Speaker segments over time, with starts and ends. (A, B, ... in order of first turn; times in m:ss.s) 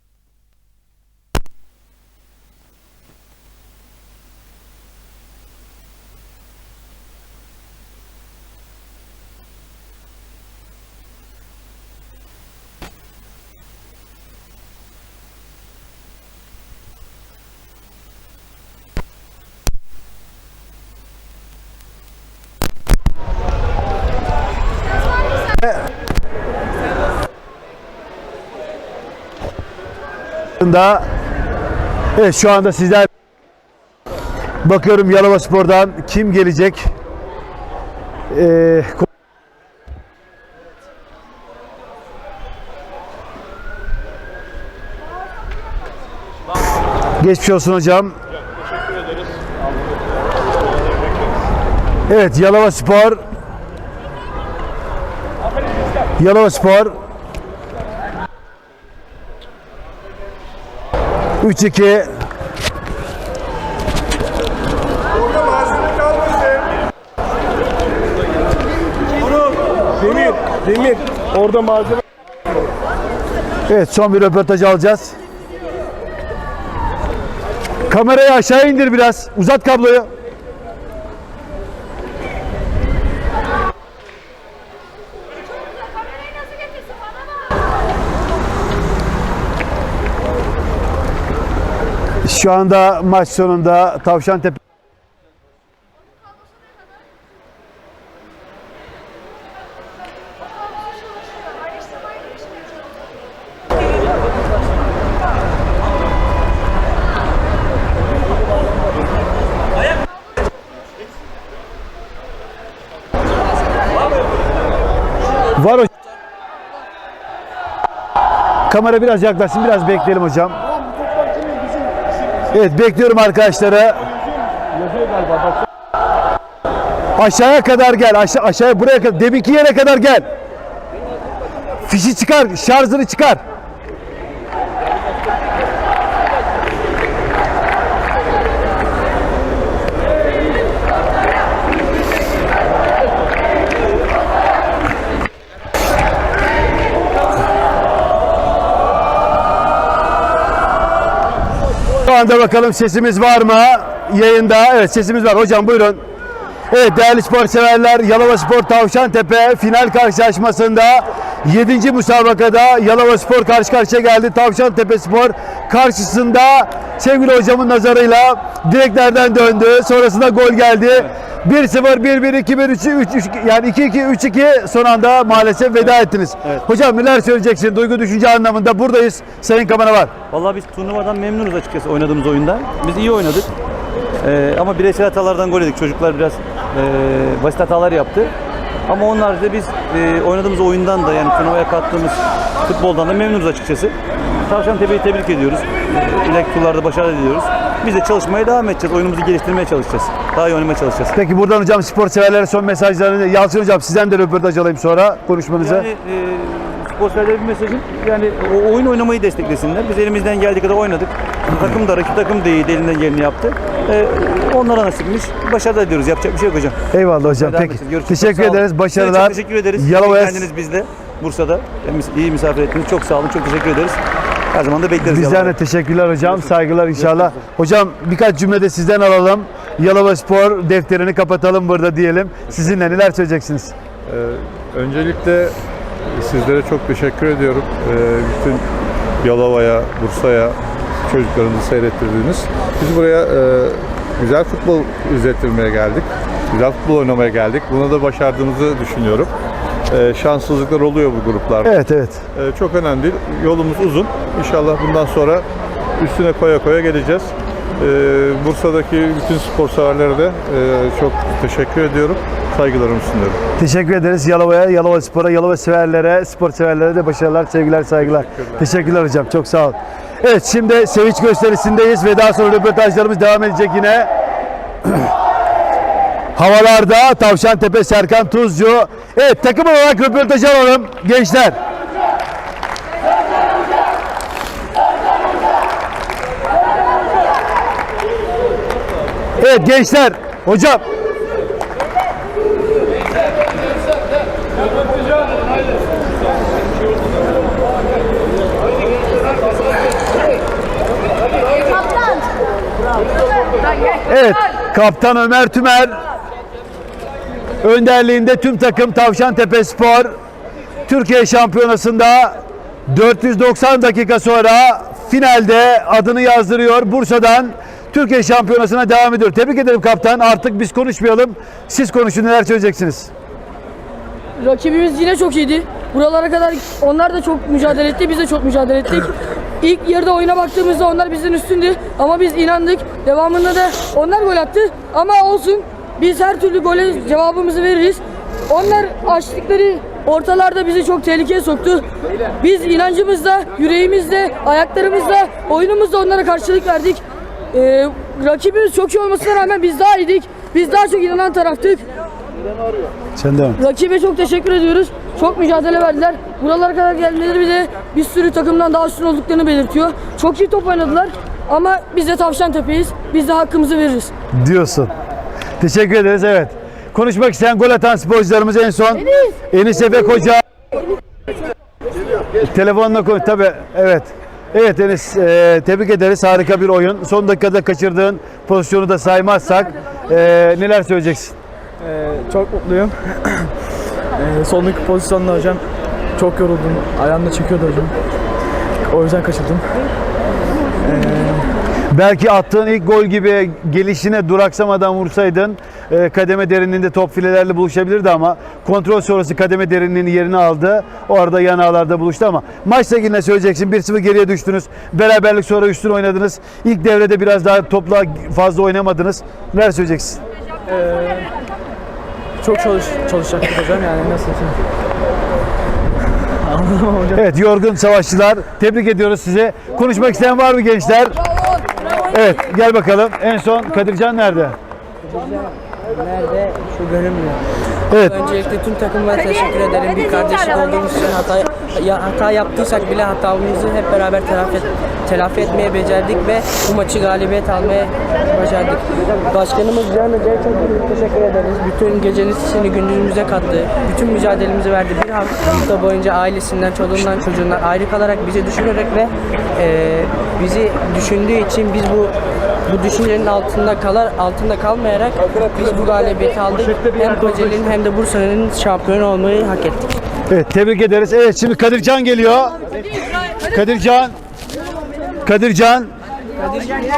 0:30.6-0:31.0 A
0:32.2-0:33.1 A
0:34.6-0:36.9 A
0:38.3-0:39.1 A
0:47.2-0:48.1 A
0:52.1-0:53.2 A
0:56.2-0:56.9 A
1:01.4-1:02.1 A
1:10.0-1:11.9 B
1:13.7-1:15.1 A
1:17.9-1:20.1 A
1:32.2-1:34.6 A
1:55.6-1:55.9 A
1:58.7-2:00.6 A
2:02.5-2:04.0 A
2:07.2-2:10.2 A
2:11.9-2:13.4 A
2:32.0-2:36.0 A
2:36.7-3:00.1 A
3:00.3-3:03.5 C
3:04.2-3:08.3 C
3:08.9-3:13.9 C
3:14.5-3:21.1 C
3:21.1-3:25.9 A
3:25.6-3:36.8 C
3:36.9-3:40.5 A
3:37.4-3:44.0 C
3:44.5-3:45.5 C
3:45.0-3:53.7 A
3:47.0-3:47.3 C
3:54.0-3:55.6 D
3:56.1-3:58.6 D
3:59.2-4:00.6 D
4:01.1-4:09.3 D
4:09.9-4:11.7 D
4:11.6-4:12.2 A
4:12.3-4:15.4 D
4:16.0-4:23.4 D
4:23.6-4:34.1 A
4:28.0-4:28.6 D
4:36.4-4:41.5 A
4:49.4-4:50.8 A
5:04.1-5:06.0 A
5:07.6-5:10.1 A
5:10.9-5:12.4 A
5:12.9-5:23.1 A
5:24.4-5:41.8 E
5:42.4-5:47.0 E
5:47.5-5:51.8 E
5:53.2-5:53.6 A
5:53.6-6:04.1 E
6:04.3-6:04.9 A
6:05.6-6:10.4 A
6:12.4-6:21.3 A
6:21.8-6:23.5 B
6:24.2-6:25.6 B
6:26.2-6:27.9 B
6:28.9-6:29.6 B
6:30.8-6:31.5 B
6:31.9-6:50.2 A
6:50.7-6:51.3 B
6:52.4-6:54.6 B
6:56.4-6:57.3 B
6:57.2-7:01.2 A
7:02.1-7:04.5 A
7:05.0-7:07.4 F
7:07.9-7:32.1 F
7:32.7-7:39.9 F
7:40.3-7:42.5 A
7:43.5-7:44.1 A
7:45.2-7:45.9 A